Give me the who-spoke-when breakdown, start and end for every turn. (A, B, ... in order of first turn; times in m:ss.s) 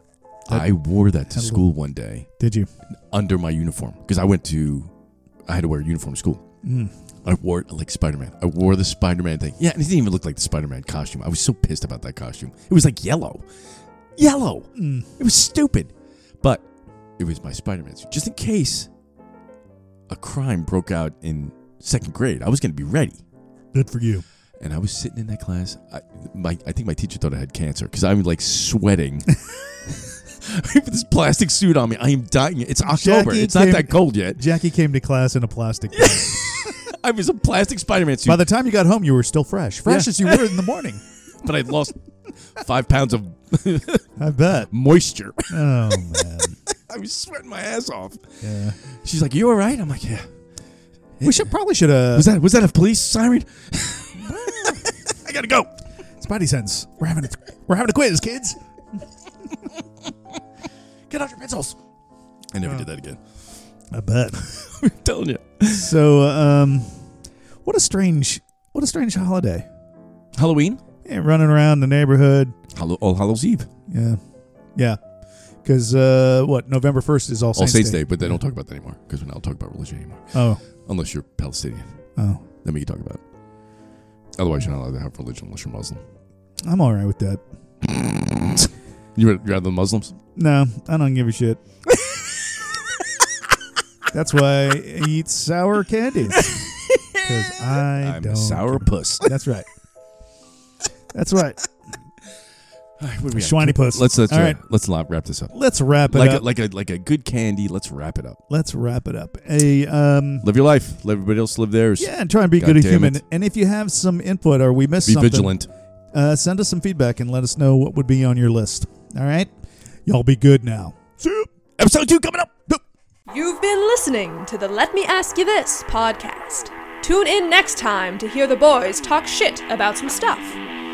0:00.5-0:02.3 A
0:01.3-0:01.7 B
0:02.4-0:02.7 B
0:03.1-0:04.9 A
0:05.5-0:06.4 A
0:06.6-0:06.9 B
0:07.2-0:13.4 A
0:14.2-0:16.6 A
0:14.8-0:15.1 B
0:17.2-0:18.9 A
0:20.1-0:23.2 A
0:23.7-0:24.2 B
0:24.6-0:34.4 A
0:32.8-0:36.8 B
0:35.9-0:38.4 A
0:38.2-0:41.0 B
0:39.9-0:40.6 A
0:41.4-0:42.0 A
0:42.5-0:44.1 A
0:44.2-0:44.7 B
0:44.7-0:48.2 A
0:45.5-0:46.6 B
0:48.4-0:48.8 B
0:48.8-0:50.3 A
0:51.2-0:51.5 A
0:51.2-0:52.3 B
0:52.1-0:55.7 A
0:54.4-0:54.8 B
0:56.2-0:58.6 B
1:01.1-1:01.8 B
1:02.5-1:03.2 A
1:03.9-1:04.4 B
1:04.4-1:05.9 A
1:05.7-1:07.0 B
1:07.6-1:09.7 B
1:10.4-1:10.8 A
1:11.0-1:12.6 B
1:12.7-1:13.7 A
1:13.9-1:14.2 B
1:15.6-1:18.4 B
1:17.6-1:22.0 A
1:20.3-1:20.6 B
1:22.2-1:22.4 B
1:22.6-1:23.2 A
1:24.4-1:26.0 A
1:26.6-1:27.4 B
1:27.8-1:30.2 A
1:30.3-1:31.6 B
1:32.0-1:32.3 A
1:34.1-1:36.6 B
1:36.3-1:39.3 A
1:37.2-1:39.7 B
1:41.1-1:41.7 B
1:43.0-1:45.5 A
1:43.3-1:44.6 B
1:45.5-1:46.4 B
1:46.1-1:48.4 A
1:48.5-1:50.4 B
1:50.4-1:53.2 A
1:52.0-1:55.6 B
1:55.0-1:55.7 A
1:56.1-1:59.5 B
2:00.1-2:01.5 B
2:01.8-2:02.6 A
2:03.3-2:10.6 C